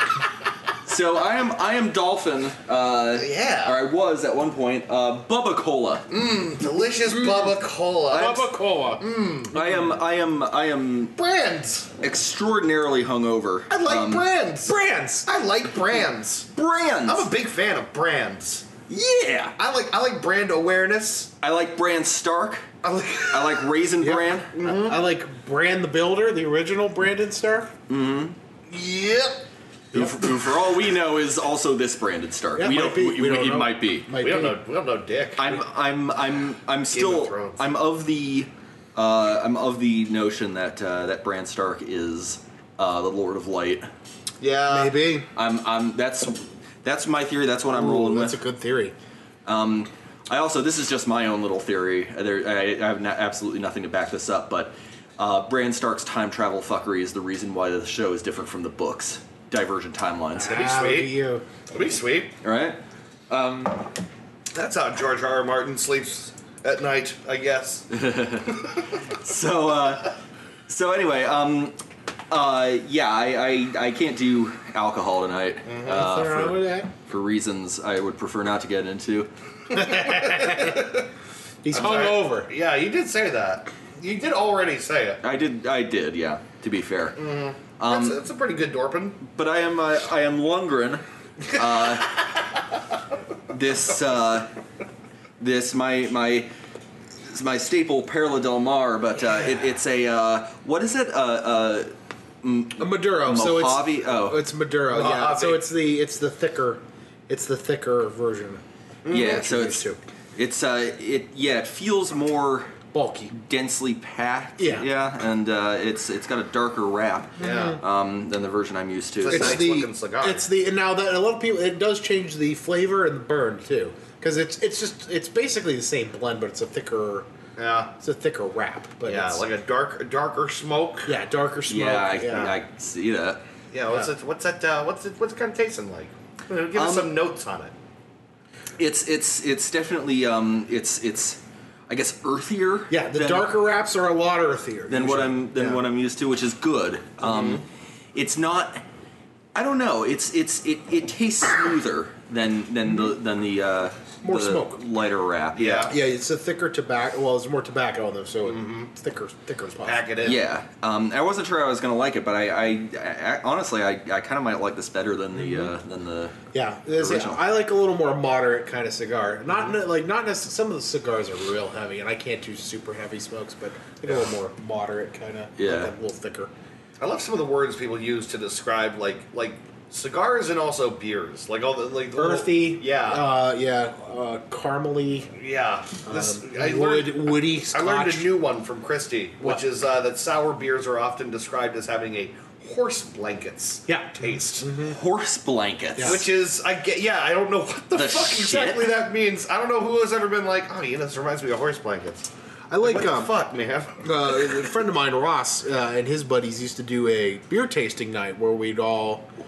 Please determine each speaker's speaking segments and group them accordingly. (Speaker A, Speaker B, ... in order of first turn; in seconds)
Speaker A: 0.8-6.1, 8.1-8.4, 9.5-11.1, 12.0-14.2, 16.5-17.3, 18.9-19.5, 21.4-22.7, 23.3-24.5, 27.9-28.4, 29.9-34.0, 35.4-43.9, 45.3-48.4, 49.5-60.6, 62.4-62.8, 63.3-63.9, 67.9-70.2, 70.7-71.8, 72.3-79.3, 85.2-87.2, 87.8-88.2, 89.2-92.3, 93.5-94.5, 95.4-96.5, 97.3-101.9, 102.4-104.4, 109.1-112.7, 113.3-119.6, 131.7-133.4, 136.7-137.1, 138.8-143.5, 144.9-148.8, 149.5-155.9, 160.2-166.4, 166.9-167.4, 175.6-175.9, 194.8-196.2, 197.9-199.0
Speaker B: 3.1-3.8, 6.1-9.6, 11.2-11.9, 13.7-16.5, 17.1-18.7, 19.6-21.3, 22.8-23.7, 24.5-25.0, 28.7-29.4, 34.2-35.5, 36.9-37.6, 44.4-45.0, 60.4-61.1, 61.7-62.3, 64.5-67.9, 75.7-76.1, 79.8-81.0, 81.7-85.2, 87.2-89.2, 104.9-105.7, 109.0-109.4, 117.4-117.8, 119.2-120.5, 127.5-127.9, 129.1-131.1, 132.3-132.6, 133.7-137.7, 147.2-147.6, 155.5-155.9, 158.4-158.9, 159.8-160.4, 177.0-183.2, 185.3-194.7, 196.0-202.3, 202.8-204.6
Speaker C: 8.1-9.8, 14.6-15.3, 24.0-27.7, 32.6-34.6, 44.7-45.3, 47.7-48.9, 60.3-61.4, 75.9-76.9, 79.7-81.0, 81.6-82.5, 102.8-110.0, 112.9-113.3, 114.6-114.9, 117.4-117.8, 119.3-127.3, 128.0-129.4, 131.1-132.5, 142.9-145.8, 154.2-154.8, 155.9-160.1, 166.5-176.5, 182.1-185.3, 186.1-188.3, 193.9-195.0, 202.7-203.3, 204.0-209.3